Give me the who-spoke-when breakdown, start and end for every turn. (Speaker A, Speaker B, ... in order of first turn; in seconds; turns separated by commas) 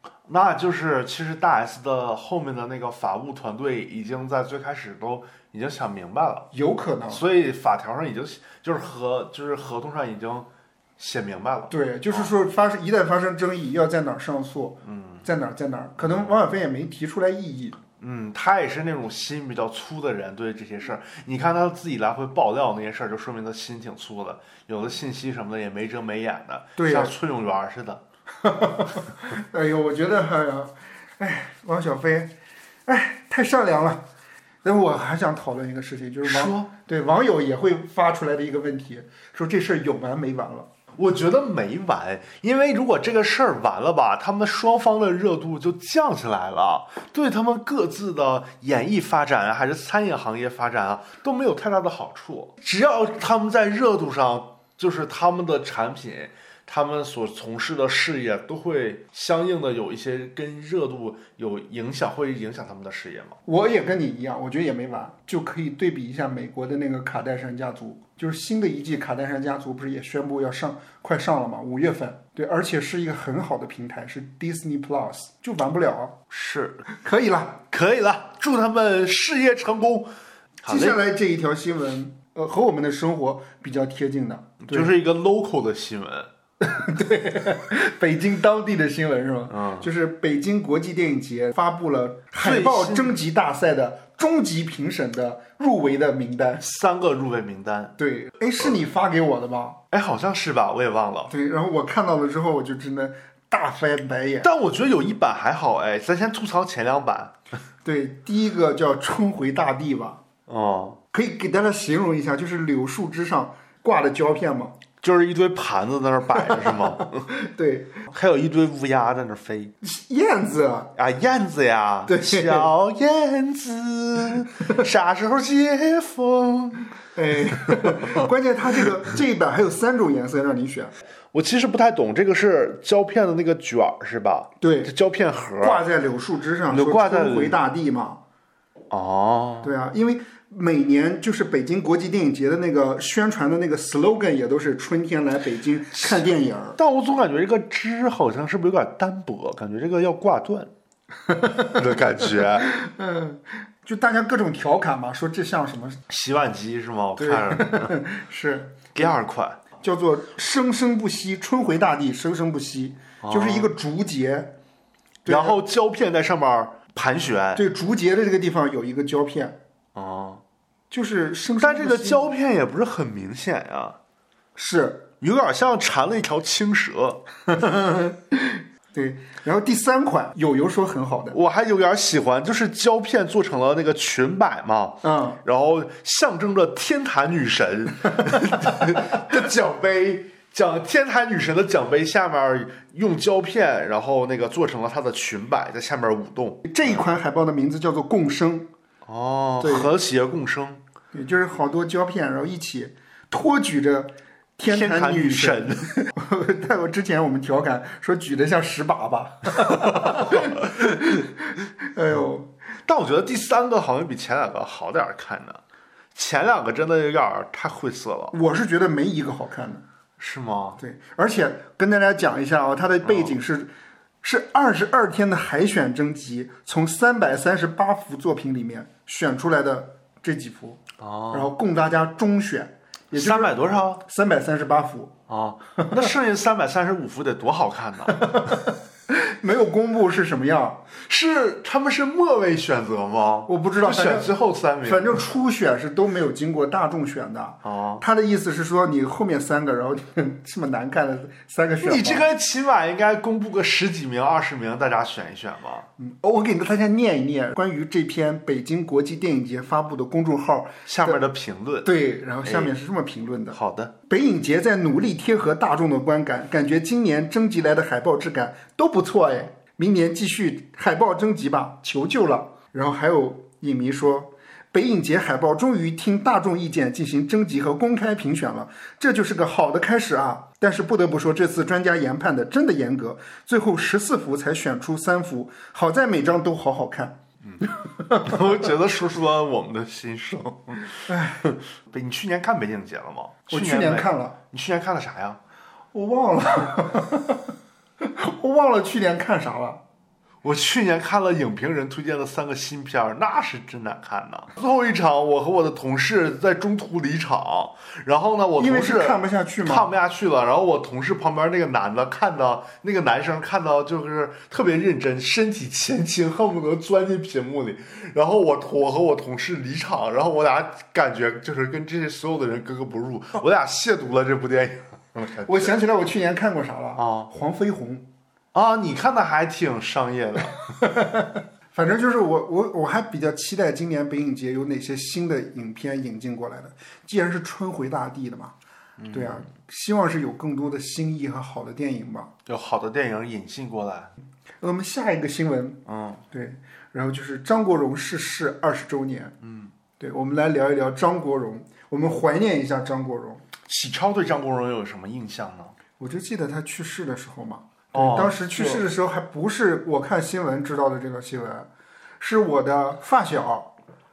Speaker A: 0.3-6.5, Speaker B: 6.5-7.2, Speaker A: 7.1-12.3, Speaker B: 11.7-17.8, Speaker A: 14.8-15.2, Speaker A: 16.0-16.4, Speaker A: 18.0-28.0, Speaker B: 26.8-27.1, Speaker B: 28.4-32.3, Speaker B: 32.9-34.0, Speaker B: 34.6-40.7, Speaker A: 36.2-36.7, Speaker A: 40.9-63.4, Speaker B: 63.5-76.2, Speaker A: 76.3-76.9, Speaker B: 76.9-77.6, Speaker A: 77.7-80.1, Speaker A: 80.6-81.0, Speaker B: 80.7-84.9, Speaker A: 84.6-86.3, Speaker B: 86.6-96.6, Speaker A: 89.5-89.9, Speaker A: 92.4-93.2, Speaker A: 96.6-98.0, Speaker B: 98.0-99.8, Speaker A: 99.9-101.3, Speaker B: 101.3-104.5, Speaker A: 104.4-107.3, Speaker B: 107.8-110.2, Speaker A: 110.5-111.0, Speaker B: 111.1-114.7, Speaker A: 115.0-117.3, Speaker B: 116.4-118.0, Speaker A: 118.1-119.7, Speaker B: 119.8-120.9, Speaker A: 121.0-126.9, Speaker B: 122.1-122.7, Speaker B: 127.1-130.9, Speaker A: 127.5-128.2, Speaker A: 131.3-135.8, Speaker B: 134.6-134.9, Speaker B: 135.6-138.2, Speaker A: 136.7-137.6, Speaker A: 138.9-139.7, Speaker B: 139.6-146.8, Speaker A: 145.9-150.7, Speaker B: 151.3-156.0, Speaker A: 151.6-152.7, Speaker A: 156.1-158.0, Speaker B: 157.2-159.1, Speaker A: 158.9-159.6, Speaker B: 159.8-164.5, Speaker A: 163.2-163.7, Speaker B: 165.2-165.6, Speaker A: 165.2-167.6, Speaker B: 167.5-169.6, Speaker A: 169.9-170.4, Speaker B: 170.9-172.3, Speaker A: 171.6-174.0, Speaker B: 174.6-175.1, Speaker A: 175.2-177.2, Speaker B: 177.5-181.4, Speaker A: 181.3-197.1, Speaker B: 185.0-185.4, Speaker B: 188.2-188.6, Speaker B: 196.6-198.7, Speaker A: 199.0-200.8, Speaker B: 199.6-199.9, Speaker B: 201.1-212.5, Speaker A: 204.7-205.9, Speaker A: 209.6-210.8, Speaker A: 212.8-215.6, Speaker A: 216.1-218.3, Speaker B: 218.3-219.8, Speaker A: 220.2-220.8, Speaker B: 220.8-223.7, Speaker A: 223.0-223.3, Speaker B: 224.2-235.1, Speaker A: 231.0-231.5, Speaker A: 233.1-234.0, Speaker A: 235.3-238.5, Speaker B: 235.8-236.1, Speaker B: 238.1-240.8, Speaker A: 240.9-245.2, Speaker B: 243.5-252.3, Speaker A: 247.6-248.0, Speaker A: 251.8-255.9, Speaker B: 256.0-261.2, Speaker A: 260.9-261.9, Speaker B: 261.8-288.4, Speaker A: 262.4-262.7, Speaker A: 263.5-263.9, Speaker A: 287.4-295.4, Speaker B: 291.1-291.5, Speaker B: 293.5-294.4, Speaker B: 295.9-297.5, Speaker B: 298.0-299.8, Speaker A: 300.4-325.8, Speaker B: 308.6-309.9, Speaker B: 325.4-328.1, Speaker A: 326.9-327.3, Speaker A: 328.5-330.6, Speaker B: 330.7-338.5, Speaker A: 339.0-339.5, Speaker B: 339.1-342.3, Speaker A: 342.4-344.1, Speaker B: 344.6-349.4, Speaker A: 345.9-346.2, Speaker A: 349.4-349.7, Speaker B: 350.0-353.4, Speaker A: 353.6-355.8, Speaker B: 356.0-361.7, Speaker A: 357.9-358.9, Speaker B: 362.2-363.7